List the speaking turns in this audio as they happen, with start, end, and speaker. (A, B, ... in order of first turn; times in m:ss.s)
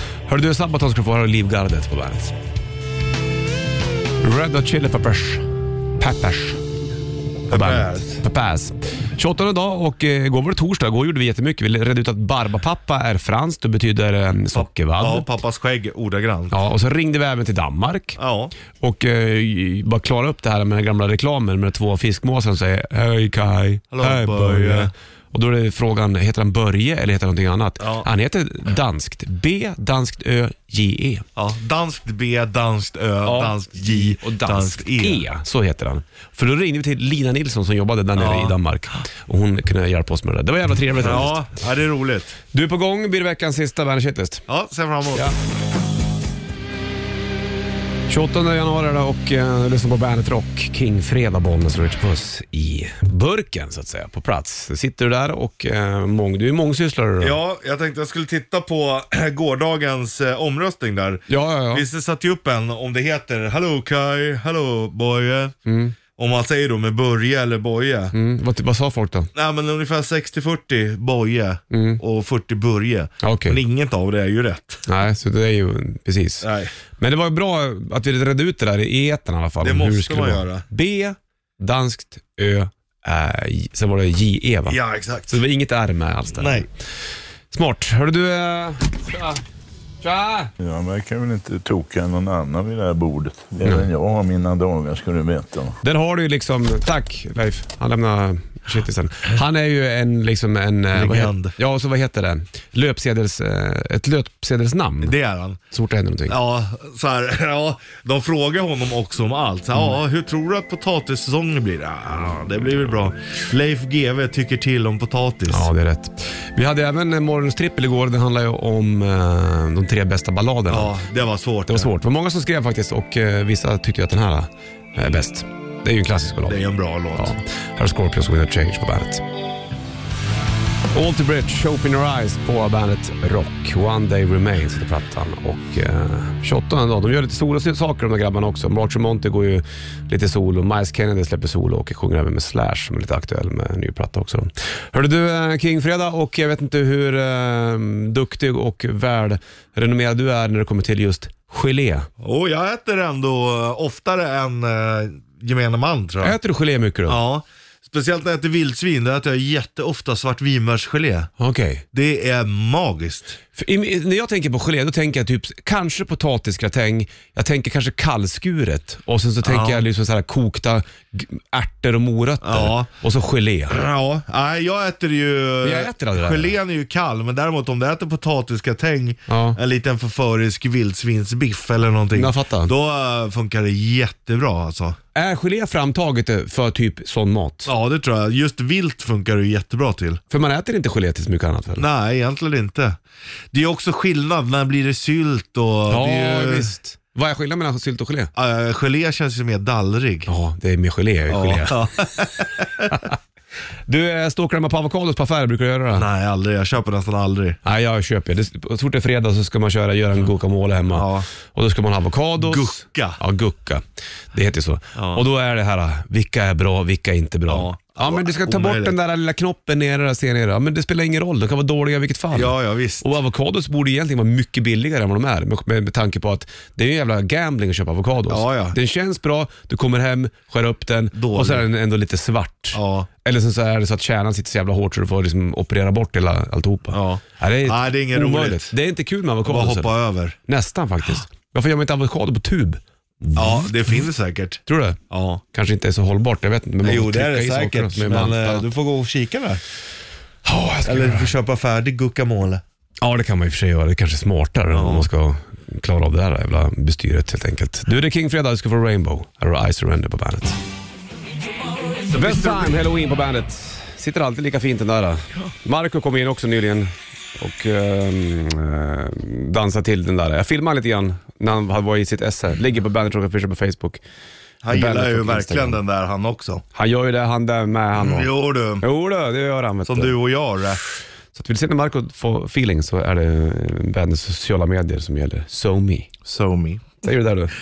0:00.3-0:02.3 A
0:04.2-0:05.4 A
0:06.0-0:06.6 A
0:07.5-0:08.2 B
0:07.5-0:15.3 A
0:14.5-0:16.6 B
0:16.5-0:18.2 A
0:18.2-0:18.5 B
0:18.7-0:31.2 A
0:23.9-0:24.9 B
0:27.8-0:28.1 B
0:31.4-0:35.2 B
0:33.2-0:41.5 A
0:38.1-0:38.6 B
0:41.0-0:42.4 B
0:42.5-0:44.4 A
0:44.5-0:45.3 B
0:48.1-0:57.4 A
0:57.2-1:05.6 B
1:01.3-1:01.8 A
1:05.6-1:05.9 A
1:06.2-1:08.1 B
1:08.1-1:09.3 A
1:09.3-1:14.9 B
1:11.7-1:12.0 A
1:13.2-1:13.6 A
1:14.9-1:26.7 A
1:16.4-1:16.7 B
1:19.6-1:20.6 B
1:24.7-1:25.4 B
1:26.4-1:26.7 B
1:27.5-1:29.4 A
1:30.0-1:30.5 A
1:30.6-1:35.8 C
1:33.6-1:33.9 A
1:35.8-1:45.2 A
1:40.9-1:41.6 B
1:45.0-1:45.6 B
1:45.7-1:46.4 A
1:46.3-1:55.7 B
1:55.5-2:00.9 A
2:00.7-2:01.9 B
2:01.7-2:06.6 A
2:06.4-2:07.3 B
2:07.1-2:09.2 A
2:10.9-2:32.1 A
2:32.2-2:36.3 B
2:36.2-2:37.2 A
2:37.1-2:41.3 B
2:41.4-2:41.8 A
2:41.9-2:43.4 B
2:43.6-2:53.8 A
2:49.4-2:49.8 B
2:52.4-2:52.9 B
2:53.7-3:05.0 B
2:55.6-2:56.5 A
2:59.3-2:59.6 A
3:02.1-3:02.7 A
3:05.1-3:07.7 A
3:07.6-3:10.2 B
3:10.3-3:11.8 A
3:11.7-3:13.0 B
3:13.5-3:16.7 B
3:15.9-3:18.3 A
3:18.3-3:20.3 B
3:20.3-3:21.8 A
3:21.3-3:23.0 B
3:22.9-3:23.1 A
3:23.9-3:26.0 A
3:25.9-3:27.6 B
3:27.6-3:59.9 A
3:30.9-3:31.3 B
3:32.4-3:33.2 B
3:34.9-3:35.2 B
3:37.5-3:39.0 B
3:42.3-3:43.1 B
3:48.3-3:48.8 B
3:51.1-3:51.7 B
3:52.7-3:53.1 B
3:56.9-3:58.7 B
3:59.4-4:00.4 B
4:00.5-4:03.7 A
4:03.3-4:05.4 B
4:04.7-4:05.0 A
4:05.5-4:08.6 A
4:06.8-4:09.6 B
4:10.4-4:11.3 A
4:10.8-4:12.6 B
4:13.0-4:20.6 A
4:14.7-4:15.1 B
4:22.1-4:22.7 B
4:22.1-4:34.0 A
4:34.6-4:36.6 B
4:34.7-4:35.8 A
4:36.7-4:40.2 A
4:38.0-4:38.8 B
4:39.8-4:40.8 B
4:41.3-4:46.2 A
4:46.2-4:47.0 B
4:47.0-4:47.5 A